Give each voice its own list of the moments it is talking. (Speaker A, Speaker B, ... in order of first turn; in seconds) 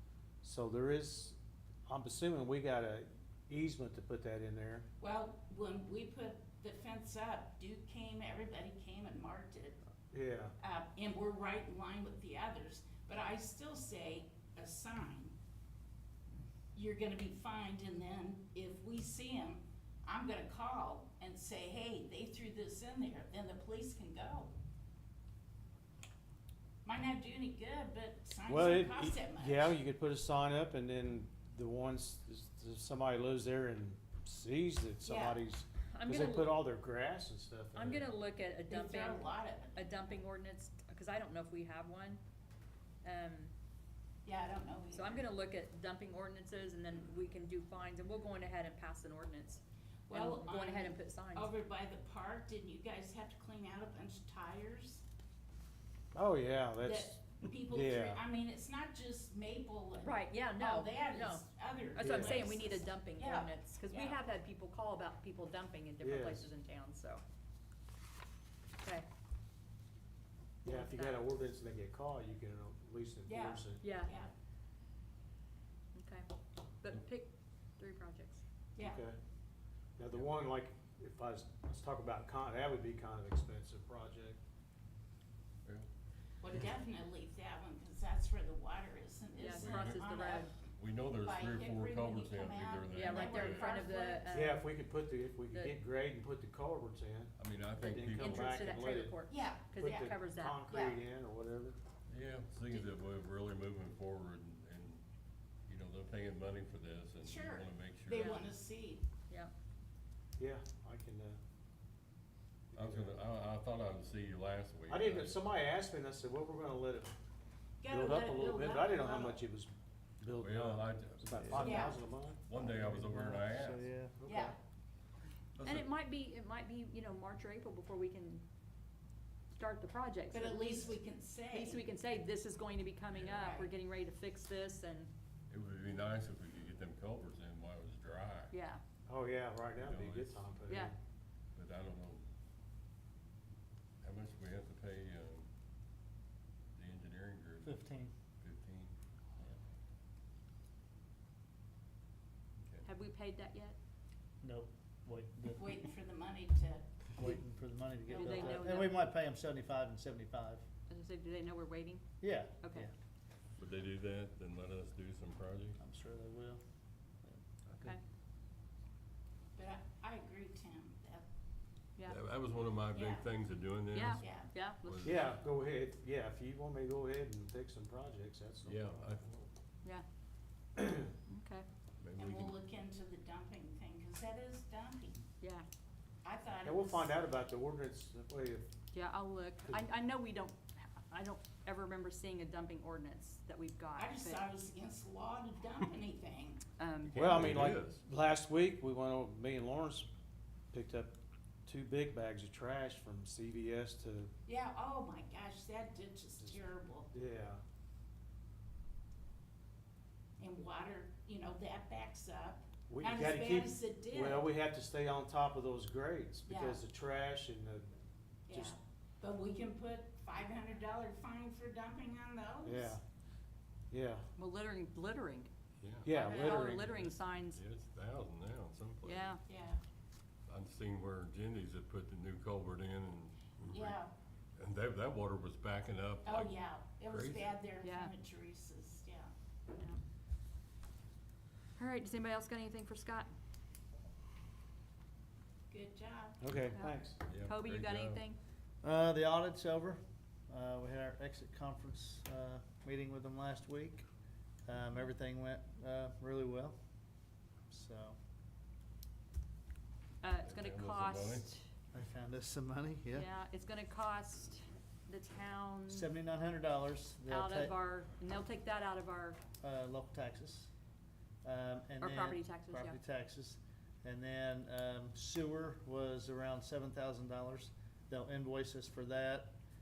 Speaker A: 0.4-4.9, 10.1-10.5, 28.5-38.1, 56.1-58.2, 62.0-62.5, 66.0-66.5, 70.7-73.8, 78.8-79.2, 80.0-84.4, 94.3-99.2, 99.7-101.8, 110.4-111.4, 112.7-113.2, 114.9-117.1, 117.9-122.4, 139.1-140.9, 175.0-179.5, 180.8-181.1, 186.6-188.7, 197.1-200.1, 200.7-204.3, 207.1-207.6, 212.9-217.9, 218.5-218.8, 222.6-223.0, 223.9-224.3, 226.0-226.9, 246.4-247.2
Speaker B: 5.0-9.8, 10.6-15.3, 16.7-24.5, 26.9-29.8, 35.0-35.4, 38.7-40.1, 44.2-45.3, 50.1-55.0, 56.8-64.2, 73.3-74.3, 78.8-79.0, 86.4-90.5, 91.2-94.3, 99.3-100.1, 100.7-101.0, 107.2-109.0, 117.8-119.4, 121.6-122.0, 124.2-124.6, 130.3-131.8, 133.3-133.7, 155.6-156.8, 158.2-158.6, 169.6-171.2, 172.9-173.3, 174.2-174.5, 182.2-185.2, 186.2-187.1, 194.0-196.6, 204.5-207.1, 210.4-214.5, 216.5-216.8, 218.5-222.9, 226.3-226.7, 229.5-229.8, 233.7-234.1, 236.2-239.3, 245.7-246.4
Speaker C: 35.9-36.6, 37.7-42.2, 43.0-43.5, 44.9-51.5, 60.0-67.2, 68.8-69.1, 70.6-71.2, 73.8-74.1, 76.0-76.3, 76.8-78.4, 89.4-90.5, 92.9-94.7, 95.5-95.8, 98.1-100.6, 108.1-108.4, 125.6-128.4, 129.5-131.0, 131.5-135.1, 138.5-138.8, 152.8-153.8, 158.1-159.0, 160.9-162.0, 162.6-162.9, 173.9-175.3, 181.3-181.7, 185.4-185.7, 188.9-194.4, 196.8-197.4, 224.4-225.5, 226.1-227.6, 229.0-229.4, 237.8-238.1, 241.8-243.3, 246.7-248.4, 260.2-261.7, 263.1-266.1, 267.3-269.4, 272.0-273.0
Speaker D: 89.5-93.8, 97.4-98.7, 102.1-105.0, 105.7-108.4, 112.8-115.4, 120.4-121.9, 122.4-123.9, 125.6-125.9, 133.1-133.4, 135.5-138.5, 139.8-140.5, 141.6-142.2, 144.0-145.5, 146.8-147.8, 148.4-148.9, 163.6-165.8, 172.1-175.4, 178.7-179.3, 182.0-182.6, 197.1-198.0, 225.8-226.2, 226.7-229.4, 230.5-234.0, 234.6-237.5, 247.3-248.2, 260.4-261.5
Speaker E: 121.4-122.0, 122.5-124.6, 147.6-148.1, 154.4-155.9, 157.2-160.7, 162.2-162.9, 165.8-166.6, 248.8-254.1, 254.7-256.8, 257.7-258.2, 261.9-263.3, 265.9-267.7, 269.6-270.7, 271.4-279.6